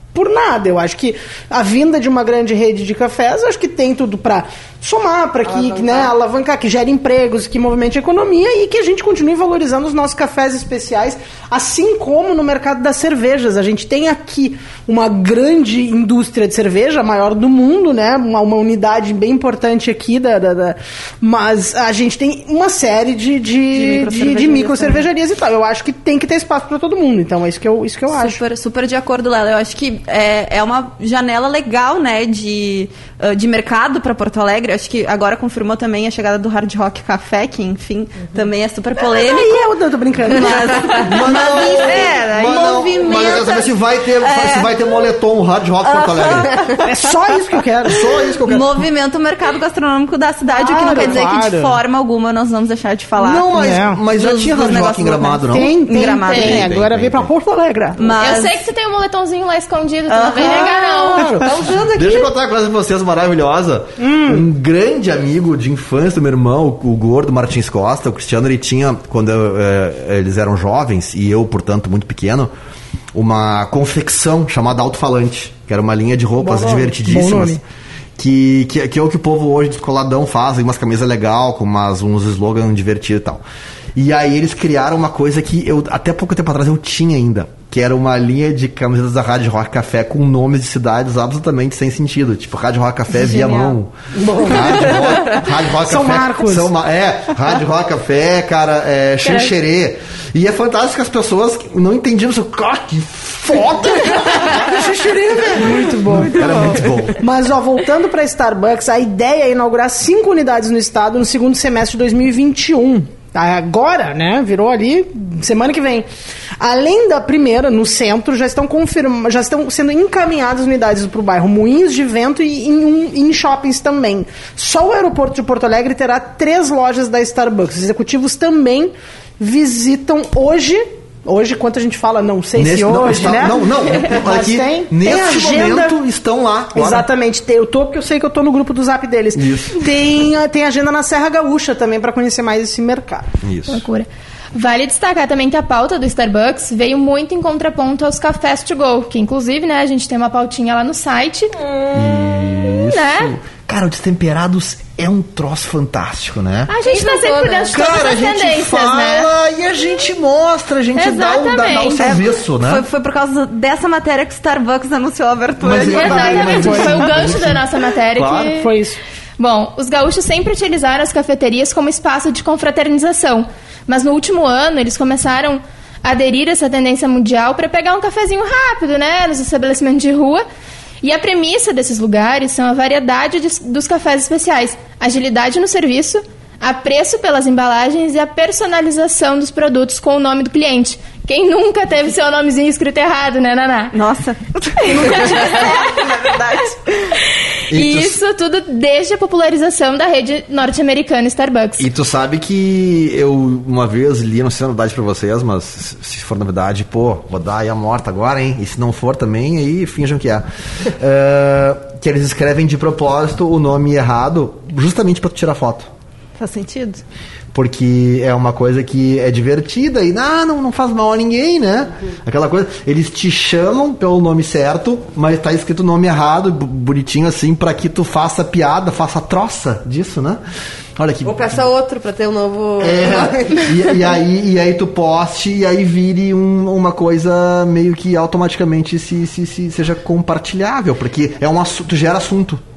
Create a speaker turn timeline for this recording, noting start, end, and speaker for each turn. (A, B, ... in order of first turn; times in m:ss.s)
0:00.1-0:28.4 A
0:05.5-0:06.1 B
0:23.7-0:25.1 C
0:28.1-0:39.7 C
0:39.0-0:43.5 A
0:40.3-0:44.8 C
0:41.0-0:46.6 D
0:46.0-0:48.1 A
0:46.2-0:46.7 C
0:47.8-0:48.9 D
0:48.4-0:53.6 C
0:50.5-0:51.8 A
0:53.2-0:55.8 D
0:53.5-0:54.0 A
0:54.1-0:56.7 C
0:55.5-0:58.1 A
0:56.3-0:57.3 D
0:58.0-0:58.7 C
0:58.2-1:02.2 E
1:00.1-1:01.4 C
1:00.4-1:01.5 A
1:01.9-1:12.5 D
1:04.0-1:04.4 A
1:13.1-1:17.6 D
1:16.4-1:17.6 A
1:18.2-1:23.4 D
1:24.0-1:47.2 D
1:33.3-1:33.7 C
1:34.2-1:36.7 A
1:39.2-1:39.5 E
1:44.1-1:46.6 A
1:47.2-1:56.1 A
1:56.6-2:16.0 A
2:12.6-2:17.1 D
2:16.7-2:23.3 A
2:19.4-2:19.8 D
2:23.4-2:23.8 D
2:23.7-2:31.6 E
2:31.9-2:36.7 D
2:32.4-2:33.4 E
2:36.7-2:39.3 E
2:36.8-2:37.8 B
2:37.7-2:42.8 D
2:41.0-2:42.1 E
2:42.1-2:46.8 C
2:45.6-2:48.5 D
2:45.7-2:48.7 E
2:46.3-2:47.0 A
2:48.3-2:49.0 A
2:49.4-3:00.4 E
3:01.0-3:14.0 E
3:13.9-3:17.2 C
3:14.9-3:16.0 E
3:17.7-3:18.2 D
3:17.7-3:21.8 E
3:21.8-3:35.9 D
3:36.4-3:37.0 C
3:37.5-3:50.4 D
3:51.0-3:51.7 D
3:51.2-3:53.8 B
3:52.8-4:02.6 D